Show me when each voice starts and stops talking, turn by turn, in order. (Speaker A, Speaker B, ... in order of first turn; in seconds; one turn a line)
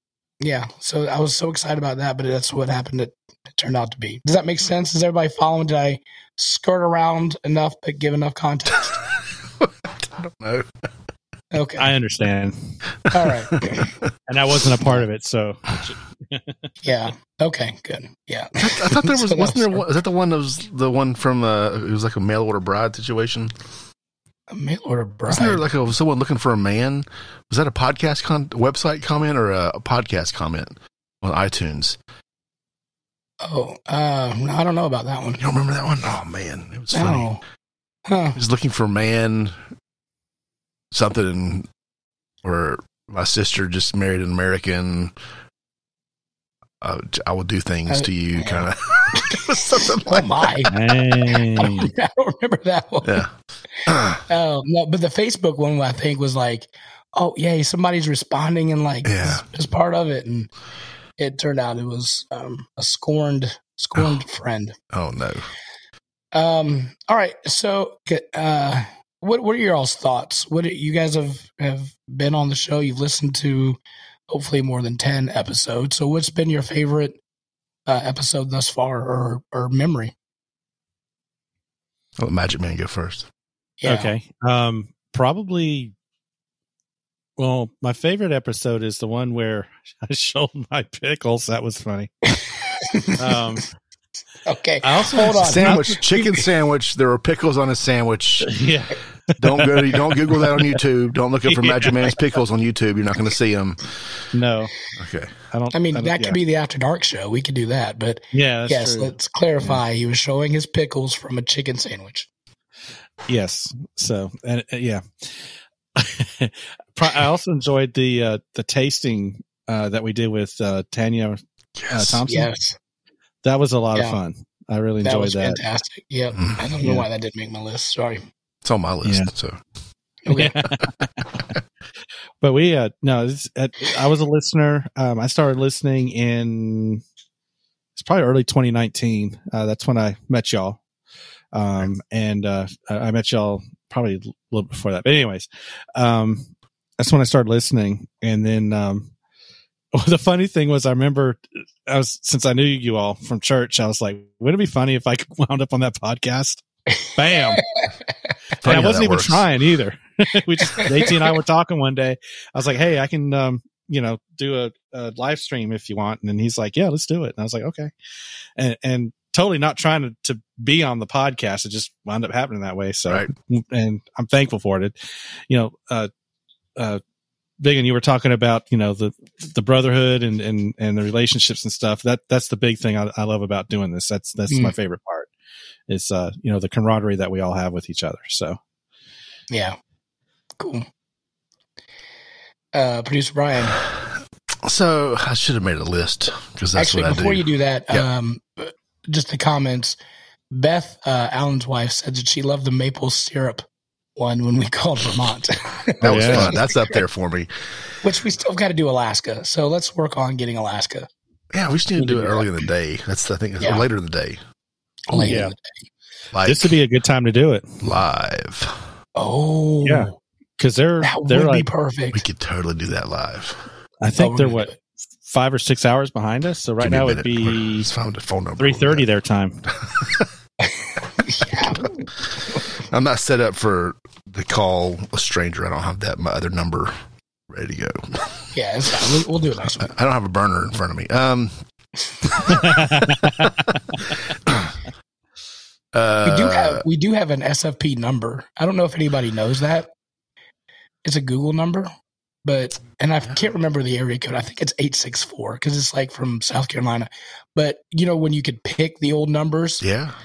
Speaker A: 0.4-9.0
Speaker B: 9.2-10.7
Speaker A: 11.5-11.9
Speaker C: 11.8-12.8
Speaker A: 13.1-13.9
Speaker C: 14.3-16.7
Speaker A: 16.8-19.8
Speaker B: 18.6-23.5
Speaker A: 24.5-25.6
Speaker B: 25.3-32.0
Speaker A: 33.4-35.4
Speaker B: 35.4-37.3
Speaker A: 36.9-37.4
Speaker A: 38.1-38.4
Speaker B: 38.4-39.6
Speaker B: 40.9-41.7
Speaker B: 42.4-45.1
Speaker B: 46.8-50.5
Speaker A: 47.9-49.4
Speaker A: 50.0-50.7
Speaker C: 50.7-51.9
Speaker A: 51.5-53.2
Speaker B: 53.0-53.3
Speaker B: 53.9-54.2
Speaker A: 54.3-60.5
Speaker B: 59.1-59.5
Speaker A: 61.2-64.8
Speaker B: 64.9-65.5
Speaker A: 66.3-77.2
Speaker A: 77.9-80.2
Speaker B: 82.2-83.3
Speaker A: 83.8-84.1
Speaker C: 83.9-85.9
Speaker C: 87.4-92.1
Speaker A: 92.4-93.2
Speaker C: 93.2-93.7
Speaker A: 94.5-96.5
Speaker C: 94.8-95.9
Speaker B: 95.3-98.5
Speaker C: 98.5-100.8
Speaker B: 99.4-104.1
Speaker C: 101.5-102.1
Speaker C: 104.3-104.8
Speaker B: 105.0-105.3
Speaker C: 105.5-106.4
Speaker A: 105.7-112.3
Speaker C: 108.3-109.8
Speaker C: 113.3-121.4
Speaker B: 121.8-122.2
Speaker C: 121.9-122.5
Speaker A: 122.3-122.8
Speaker C: 123.4-125.6
Speaker A: 125.0-128.2
Speaker B: 126.3-126.7
Speaker B: 128.6-129.6
Speaker C: 129.0-129.3
Speaker A: 130.2-130.6
Speaker C: 130.3-131.4
Speaker C: 132.4-137.0
Speaker C: 138.0-140.8
Speaker C: 141.5-149.1
Speaker C: 149.9-157.6
Speaker A: 157.6-157.9
Speaker B: 158.6-159.5
Speaker C: 158.7-167.9
Speaker A: 160.8-161.1
Speaker C: 168.6-174.9
Speaker C: 175.5-176.1
Speaker C: 177.6-185.3
Speaker C: 185.9-188.6
Speaker A: 189.5-189.8
Speaker A: 190.6-190.9
Speaker A: 192.7-193.8
Speaker B: 194.6-198.1
Speaker A: 196.8-200.0
Speaker A: 200.5-203.7
Speaker A: 204.2-207.0
Speaker B: 206.0-207.5
Speaker C: 206.0-206.5
Speaker A: 208.0-211.1
Speaker B: 211.5-214.4
Speaker C: 212.0-212.3
Speaker A: 213.6-213.8
Speaker A: 215.1-215.6
Speaker C: 215.1-215.5
Speaker B: 216.3-216.8
Speaker C: 216.4-217.8
Speaker B: 217.8-218.8
Speaker A: 219.2-220.1
Speaker C: 219.8-221.7
Speaker A: 221.0-222.2
Speaker B: 222.1-223.7
Speaker C: 224.0-227.9
Speaker A: 224.2-224.8
Speaker B: 226.8-229.1
Speaker C: 228.6-229.7
Speaker B: 229.8-230.3
Speaker A: 230.7-231.9
Speaker B: 232.8-236.9
Speaker B: 237.5-238.5
Speaker A: 238.5-239.9
Speaker B: 239.7-241.6
Speaker B: 242.2-242.7
Speaker C: 242.5-243.5
Speaker B: 244.5-244.8
Speaker B: 245.9-246.8
Speaker A: 246.2-249.9
Speaker A: 251.0-251.9
Speaker A: 252.4-259.8
Speaker B: 259.8-260.2